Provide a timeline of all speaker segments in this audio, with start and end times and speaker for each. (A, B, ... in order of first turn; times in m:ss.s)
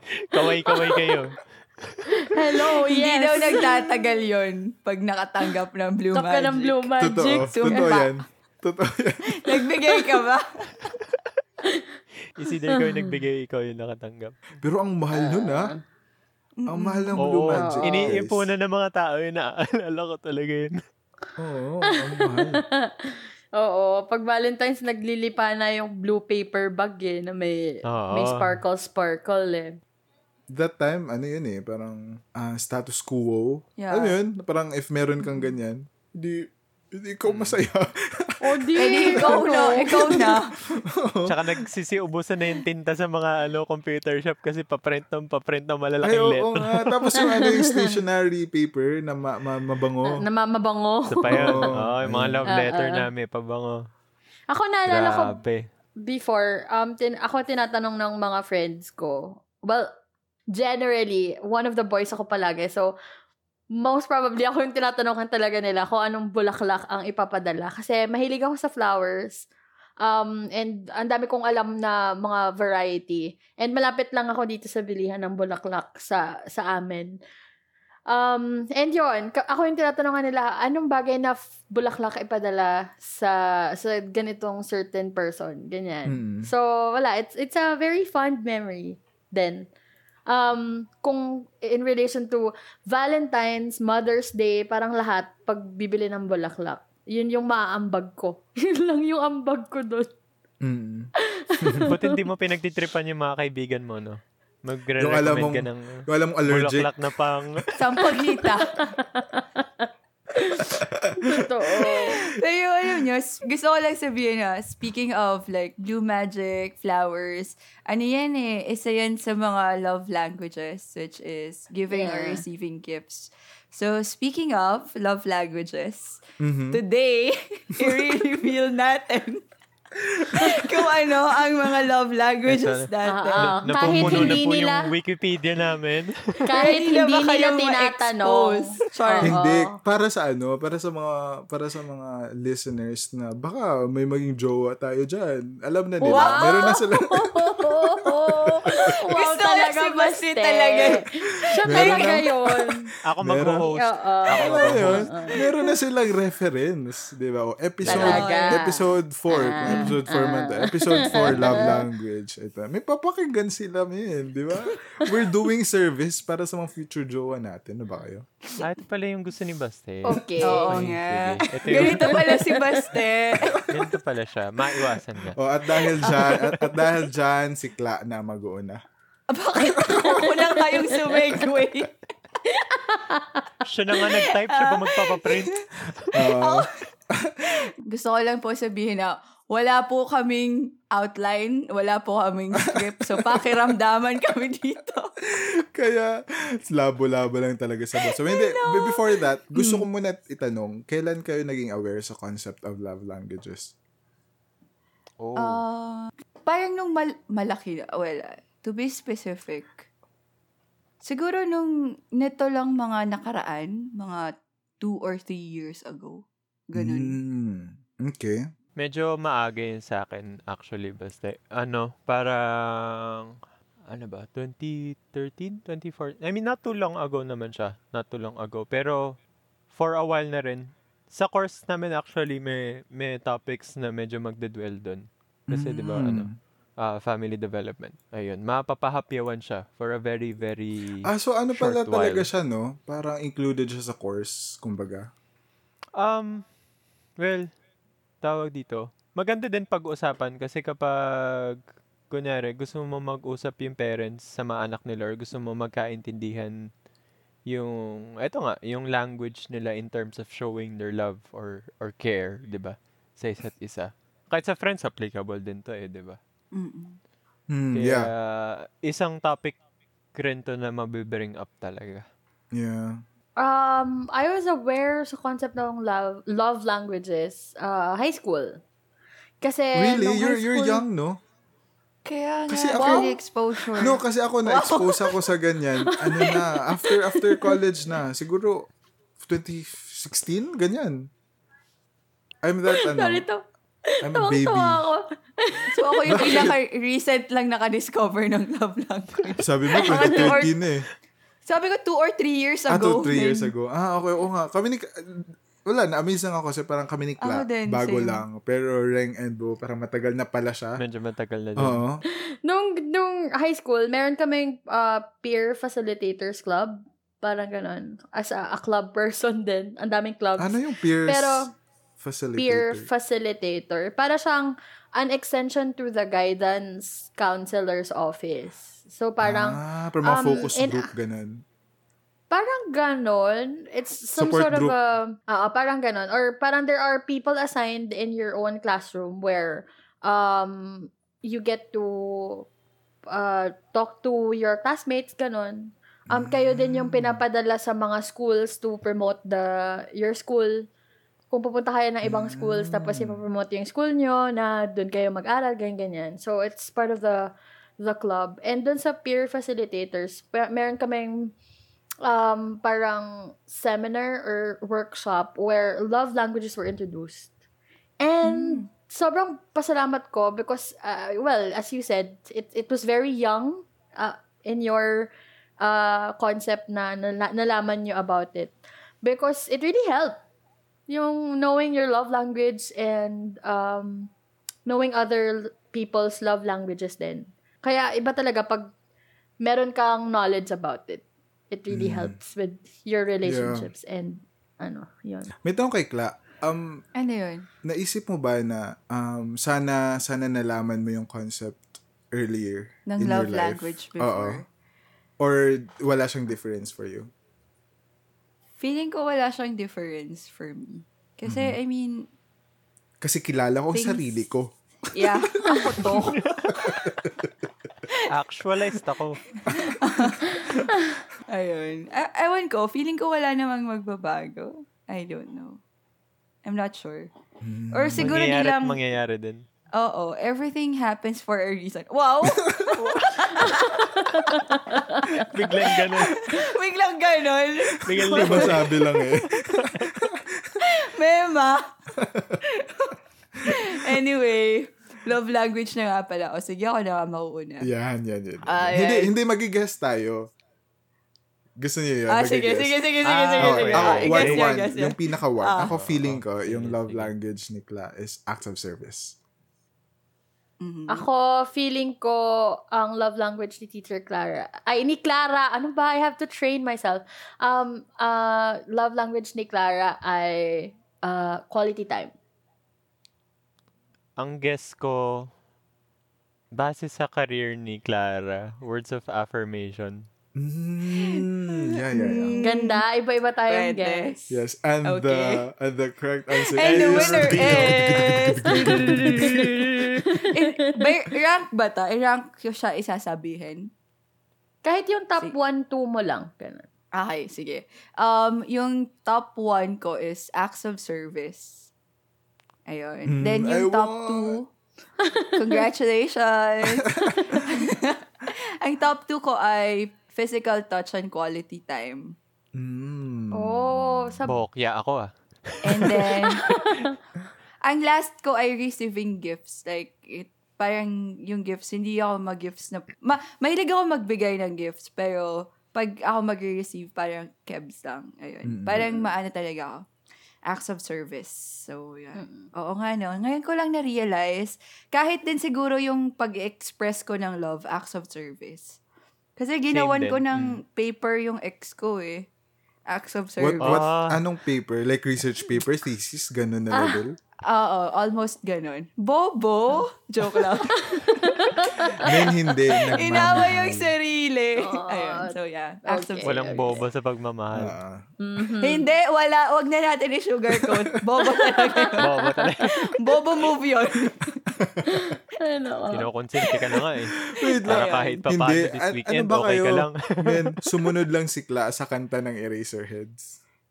0:00.2-0:02.4 A
0:02.1-0:03.9 B
0:02.6-0:08.1 C
0:06.1-0:07.9 B
0:07.0-0:09.5 D
0:09.4-0:10.9 C
0:12.4-0:14.5 A
0:12.4-0:13.1 B
0:14.6-0:15.7 D
0:15.1-0:15.8 B
0:16.6-0:17.4 C
0:16.7-0:18.5 D
0:17.2-0:20.8 A
0:17.6-0:18.1 B
0:21.4-0:22.6 D
0:22.1-0:22.5 B
0:23.6-0:29.8 B
0:27.9-0:28.6 A
0:30.5-0:38.4 D
0:33.8-0:34.2 C
0:37.3-0:37.6 A
0:38.4-0:40.2 B
0:38.8-0:40.5 C
0:39.2-0:39.5 D
0:41.0-0:41.3 D
0:41.3-0:47.2 A
0:46.0-0:50.2 D
0:47.2-0:47.9 B
0:50.0-0:51.6 B
0:51.1-0:53.7 A
0:51.3-0:52.5 D
0:52.5-0:53.0 B
0:54.5-0:55.4 B
0:54.9-0:55.6 A
0:56.0-0:59.9 B
1:00.5-1:02.9 B
1:03.7-1:09.5 B
1:10.0-1:17.2 B
1:18.1-1:29.7 B
1:26.1-1:26.5 D
1:30.3-1:40.1 B
1:40.6-1:41.1 D
1:41.3-1:42.2 B
1:41.8-1:47.6 A
1:45.0-1:46.9 D
1:47.8-1:48.7 C
1:48.1-1:52.2 B
1:51.9-2:06.2 C
2:01.9-2:02.4 B
2:06.4-2:06.8 D
2:06.7-2:09.4 C
2:10.1-2:14.3 C
2:12.4-2:16.4 A
2:13.0-2:14.9 B
2:13.9-2:14.4 D
2:16.4-2:19.8 B
2:16.5-2:19.3 C
2:19.2-2:28.8 D
2:26.0-2:32.9 B
2:26.0-2:26.7 C
2:28.8-2:32.2 C
2:31.6-2:33.7 D
2:33.0-2:35.1 A
2:33.7-2:35.4 B
2:34.3-2:48.2 D
2:37.8-2:41.7 B
2:37.9-2:38.6 C
2:39.6-2:39.9 C
2:41.1-2:41.7 C
2:48.6-2:52.2 A
2:50.0-2:50.9 B
2:50.4-2:53.6 C
2:51.8-2:53.0 B
2:53.3-2:53.6 D
2:53.7-2:55.4 A
2:55.3-2:58.8 D
2:56.0-2:56.4 A
2:56.0-2:56.6 C
2:59.3-3:02.0 C
2:59.9-3:01.2 B
3:02.7-3:03.4 B
3:03.6-3:06.1 A
3:03.9-3:05.6 C
3:06.1-3:06.7 C
3:06.1-3:07.6 D
3:07.5-3:15.1 C
3:12.7-3:13.6 D
3:15.7-3:16.1 D
3:16.7-3:23.7 D
3:18.0-3:19.8 C
3:25.2-3:25.6 A
3:25.4-3:29.8 C
3:31.0-3:37.1 C
3:36.8-3:38.4 D
3:38.8-3:43.3 A
3:43.9-3:49.0 A
3:49.7-3:56.3 A
3:55.5-3:56.3 D
3:56.8-4:02.3 A
4:01.0-4:05.1 D
4:06.0-4:06.4 A
4:07.2-4:07.5 A
4:08.2-4:11.6 A
4:12.1-4:16.6 A
4:17.5-4:26.2 A
4:26.5-4:27.0 C
4:27.5-4:28.1 D
4:27.7-4:29.6 A
4:30.1-4:32.0 A
4:32.5-4:33.0 D
4:33.4-4:38.6 B
4:39.4-4:40.8 B
4:39.8-4:41.2 D
4:42.0-4:45.3 C
4:42.5-4:43.1 D
4:42.7-4:43.2 B
4:43.8-4:48.6 D
4:49.2-4:51.1 D
4:52.4-4:53.2 D
4:52.7-4:56.5 B
4:54.0-4:54.8 D
4:55.7-5:00.5 C
4:56.1-4:56.5 D
4:59.4-5:00.8 D
4:59.9-5:00.4 B
5:01.4-5:03.5 C
5:02.7-5:04.9 D
5:05.6-5:10.8 D
5:07.2-5:08.2 C
5:10.8-5:11.8 A
5:11.6-5:12.0 D
5:12.4-5:21.5 B
5:20.4-5:21.5 D
5:22.0-5:22.9 D
5:22.3-5:30.9 B
5:29.2-5:31.4 D
5:32.3-5:42.5 B
5:34.2-5:34.8 D
5:43.1-5:50.6 B
5:46.1-5:47.2 D
5:51.3-6:01.3 B
5:52.0-5:53.2 D
6:02.0-6:07.3 B
6:08.0-6:20.2 B
6:08.2-6:08.7 C
6:20.9-6:24.1 B
6:24.7-6:28.7 B
6:29.4-6:35.3 B
6:31.7-6:32.2 D
6:33.2-6:33.7 D
6:35.4-6:36.8 D
6:37.0-6:37.5 C
6:37.6-6:44.4 D
6:42.9-6:44.4 C
6:45.2-6:47.1 D
6:48.6-6:52.1 C
6:51.3-6:51.6 D
6:53.0-6:55.6 D
6:53.7-6:54.1 C
6:54.9-6:55.9 C
6:55.4-6:56.2 B
6:56.2-6:56.7 A
6:56.5-6:57.3 D
6:58.1-6:59.2 A
6:59.5-7:00.0 D
6:59.5-7:00.6 C
7:00.2-7:00.8 B
7:01.3-7:05.6 C
7:06.4-7:07.1 C
7:07.4-7:08.2 D
7:07.7-7:08.8 C
7:08.0-7:09.4 A
7:09.7-7:14.4 C
7:12.4-7:12.8 D
7:13.4-7:15.3 B
7:15.3-7:16.2 A
7:15.6-7:18.5 C
7:17.8-7:19.9 A
7:17.9-7:20.6 D
7:20.6-7:21.7 C
7:22.0-7:22.4 D
7:22.4-7:27.7 C
7:23.5-7:24.0 D
7:27.6-7:30.3 D
7:28.4-7:29.1 C
7:31.6-7:39.2 D
7:32.1-7:35.7 C
7:33.0-7:34.7 A
7:35.7-7:37.1 A
7:40.6-7:41.0 C
7:40.9-7:52.1 B
7:54.2-7:55.3 A
7:56.5-8:00.1 A
8:00.4-8:02.4 D
8:00.9-8:02.8 C
8:02.4-8:04.2 B
8:03.5-8:04.2 C
8:04.3-8:09.3 D
8:04.8-8:05.4 C
8:06.4-8:13.7 C
8:06.6-8:09.3 A
8:09.2-8:10.8 B
8:14.6-8:16.6 B
8:16.9-8:21.7 C
8:22.6-8:24.5 C
8:23.1-8:24.4 D
8:25.0-8:25.6 B
8:25.3-8:32.2 C
8:27.0-8:27.4 B
8:32.5-8:34.2 D
8:33.3-8:34.4 B
8:34.2-8:36.2 A
8:35.6-8:36.4 C
8:36.3-8:36.9 B
8:37.6-8:49.9 C
8:48.5-8:49.1 D
8:50.5-8:58.8 C
8:52.1-8:52.5 B
8:59.4-9:02.3 C
8:59.7-9:00.6 A
9:02.9-9:03.8 C
9:03.4-9:07.1 D
9:03.6-9:04.2 A
9:06.7-9:07.0 B
9:07.5-9:11.2 C
9:10.7-9:12.3 B
9:12.0-9:13.9 D
9:12.9-9:16.8 C
9:14.6-9:16.8 B
9:16.2-9:17.8 A
9:17.5-9:18.0 D
9:18.2-9:18.9 B
9:18.6-9:24.4 C
9:21.3-9:22.7 B
9:22.0-9:22.7 A
9:24.9-9:26.1 B
9:25.9-9:27.1 A
9:27.3-9:33.4 D
9:27.6-9:28.2 C
9:27.7-9:30.5 A